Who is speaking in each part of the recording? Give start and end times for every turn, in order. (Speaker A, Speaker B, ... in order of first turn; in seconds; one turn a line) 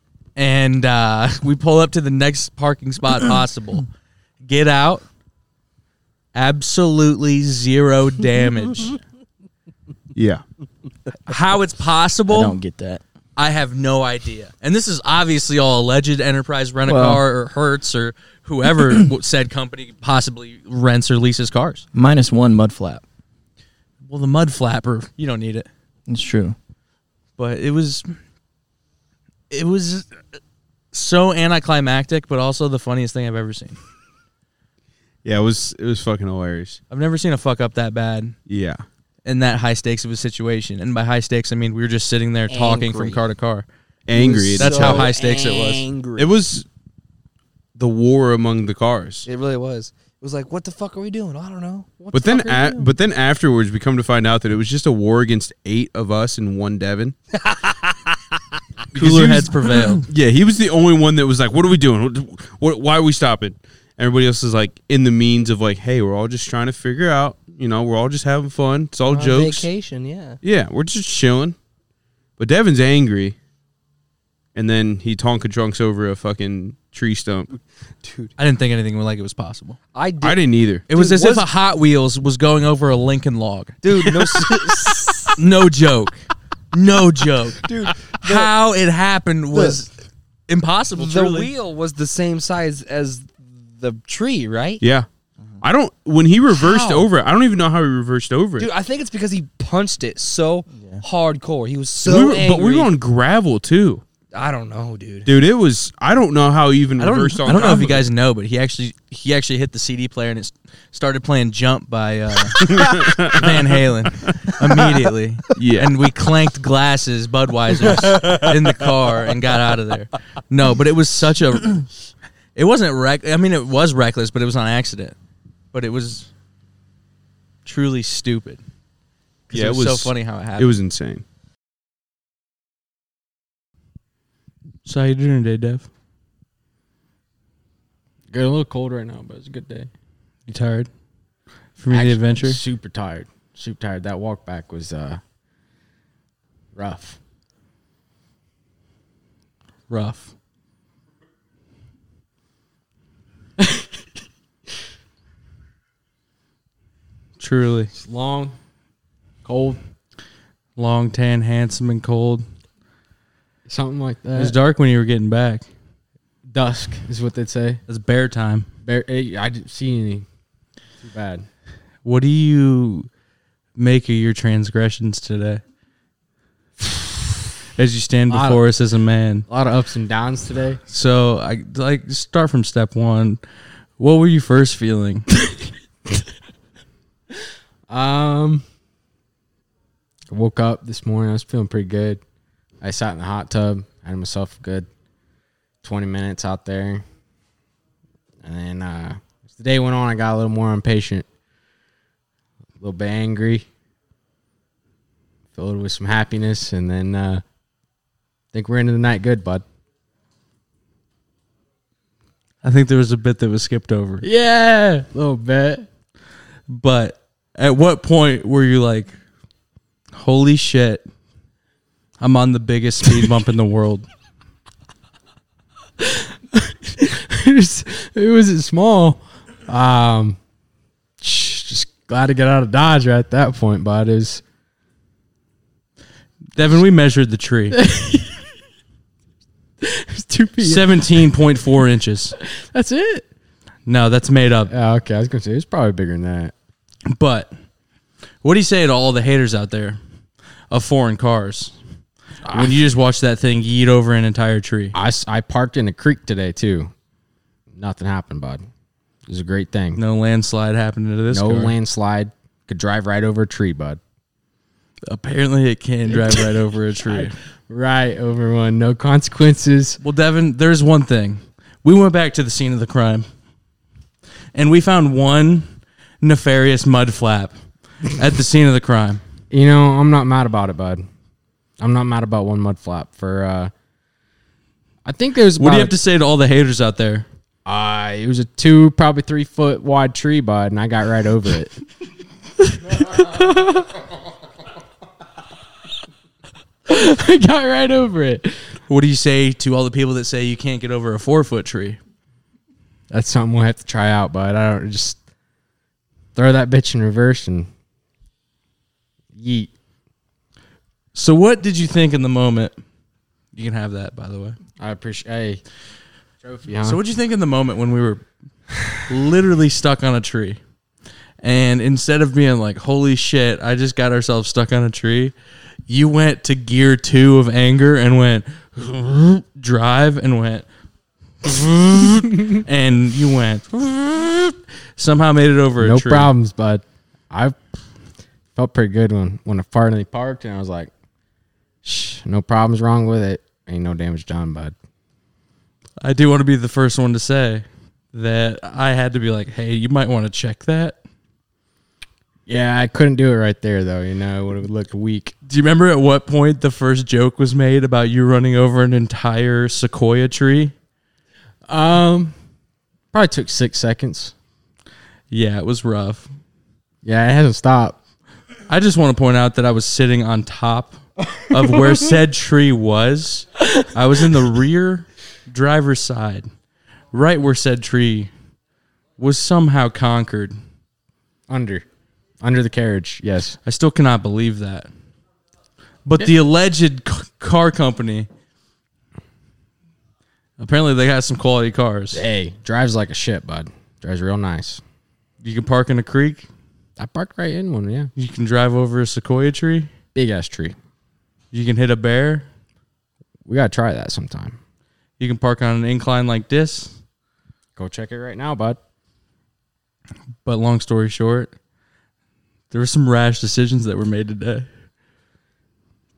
Speaker A: 0.4-3.9
Speaker A: 4.4-5.0
Speaker A: 6.3-9.0
Speaker B: 10.2-10.4
Speaker A: 11.3-12.6
Speaker C: 12.3-13.0
Speaker A: 13.4-21.9
Speaker C: 16.9-17.2
Speaker C: 21.9-23.0
Speaker A: 24.1-25.7
Speaker C: 26.1-26.6
Speaker A: 27.4-28.1
Speaker A: 29.5-30.2
Speaker A: 30.9-33.8
Speaker B: 35.2-36.8
Speaker A: 36.9-38.4
Speaker B: 38.5-38.8
Speaker A: 39.2-43.7
Speaker D: 42.5-43.2
Speaker B: 44.1-45.1
Speaker D: 44.1-46.3
Speaker A: 44.6-45.9
Speaker B: 46.2-46.7
Speaker B: 47.8-49.3
Speaker D: 49.3-52.9
Speaker B: 52.1-57.1
Speaker D: 57.3-58.1
Speaker B: 58.9-69.7
Speaker A: 58.9-60.1
Speaker D: 69.1-70.4
Speaker B: 70.4-71.6
Speaker B: 72.4-73.4
Speaker B: 74.5-77.5
Speaker D: 78.0-78.3
Speaker A: 78.4-79.8
Speaker D: 79.9-81.5
Speaker B: 80.2-80.8
Speaker A: 80.9-83.8
Speaker D: 83.8-85.4
Speaker B: 84.1-84.7
Speaker A: 85.4-87.6
Speaker D: 87.6-88.5
Speaker A: 88.2-89.9
Speaker D: 89.5-89.8
Speaker A: 90.5-91.5
Speaker D: 91.0-94.8
Speaker B: 94.8-95.1
Speaker B: 95.6-98.7
Speaker D: 96.5-97.1
Speaker D: 98.6-102.9
Speaker C: 100.7-101.0
Speaker B: 102.0-104.0
Speaker D: 104.3-105.3
Speaker B: 105.2-108.1
Speaker A: 107.0-121.9
Speaker B: 112.6-113.5
Speaker B: 115.5-116.0
Speaker A: 122.5-125.2
Speaker A: 125.7-126.3
Speaker A: 127.6-128.6
Speaker A: 129.5-130.8
Speaker B: 129.5-131.2
Speaker A: 134.8-135.9
Speaker E: 138.3-139.9
Speaker A: 140.5-140.9
Speaker A: 141.8-142.6
Speaker E: 141.9-145.2
Speaker E: 146.8-147.2
Speaker A: 149.9-150.3
Speaker A: 157.4-157.9
Speaker E: 157.9-158.6
Speaker E: 159.4-159.8
Speaker A: 160.8-162.4
Speaker E: 163.7-164.6
Speaker A: 164.4-165.6
Speaker E: 166.5-167.8
Speaker A: 167.9-168.7
Speaker E: 168.8-170.2
Speaker E: 171.0-171.4
Speaker A: 172.0-173.1
Speaker A: 173.8-175.6
Speaker A: 177.8-179.5
Speaker E: 178.3-178.7
Speaker E: 179.5-180.8
Speaker A: 180.9-183.4
Speaker A: 184.0-185.2
Speaker E: 187.9-188.6
Speaker E: 190.3-192.2
Speaker E: 192.8-194.9
Speaker E: 195.8-197.0
Speaker E: 198.4-201.2
Speaker E: 202.8-203.7
Speaker E: 205.5-207.4
Speaker E: 208.5-209.6
Speaker A: 212.6-214.2
Speaker E: 214.2-215.9
Speaker A: 216.7-219.2
Speaker A: 220.1-221.0
Speaker A: 222.2-224.1
Speaker E: 226.0-230.4
Speaker E: 231.2-234.4
Speaker A: 236.6-237.8
Speaker E: 237.7-238.4
Speaker E: 239.8-241.6
Speaker A: 240.6-242.3
Speaker E: 242.4-243.2
Speaker A: 243.9-244.7
Speaker E: 244.7-246.5
Speaker A: 247.1-247.5
Speaker A: 248.4-250.0
Speaker A: 250.7-251.8
Speaker E: 252.4-252.8
Speaker A: 252.5-255.0
Speaker E: 254.9-256.9
Speaker E: 257.7-258.6
Speaker E: 259.3-260.0
Speaker A: 260.0-261.8
Speaker E: 261.3-264.0
Speaker A: 265.1-267.3
Speaker E: 266.1-270.0
Speaker A: 270.0-273.2
Speaker A: 274.5-277.6
Speaker A: 278.1-279.2
Speaker E: 279.5-281.0
Speaker E: 281.8-283.7
Speaker E: 285.1-285.9
Speaker A: 285.6-287.2
Speaker E: 287.6-291.7
Speaker E: 292.6-294.0
Speaker E: 296.9-298.5
Speaker A: 298.9-302.0
Speaker E: 303.1-305.2
Speaker E: 306.4-307.7
Speaker E: 309.3-309.7
Speaker A: 311.1-312.8
Speaker A: 313.5-314.6
Speaker E: 314.8-315.6
Speaker E: 316.4-317.0
Speaker A: 316.8-318.2
Speaker A: 319.1-320.6
Speaker A: 321.4-325.3
Speaker A: 325.9-330.6
Speaker A: 331.4-336.3
Speaker E: 335.8-337.6
Speaker E: 338.6-340.9
Speaker E: 341.9-344.7
Speaker A: 346.0-351.0
Speaker E: 352.5-355.4
Speaker A: 355.5-360.7
Speaker E: 361.7-362.3
Speaker E: 363.1-364.3
Speaker A: 365.3-366.3
Speaker E: 367.0-368.0
Speaker A: 368.7-376.5
Speaker A: 377.1-378.3
Speaker A: 379.2-380.6
Speaker E: 381.5-381.8
Speaker E: 382.4-383.6
Speaker A: 383.6-384.9
Speaker A: 386.1-388.3
Speaker A: 390.6-392.2
Speaker E: 392.1-394.8
Speaker A: 395.4-396.5
Speaker E: 397.0-398.1
Speaker A: 398.1-399.9
Speaker E: 400.1-400.8
Speaker A: 401.5-402.5
Speaker E: 403.5-404.6
Speaker A: 405.2-406.9
Speaker E: 407.8-408.8
Speaker A: 410.4-411.5
Speaker A: 412.7-414.7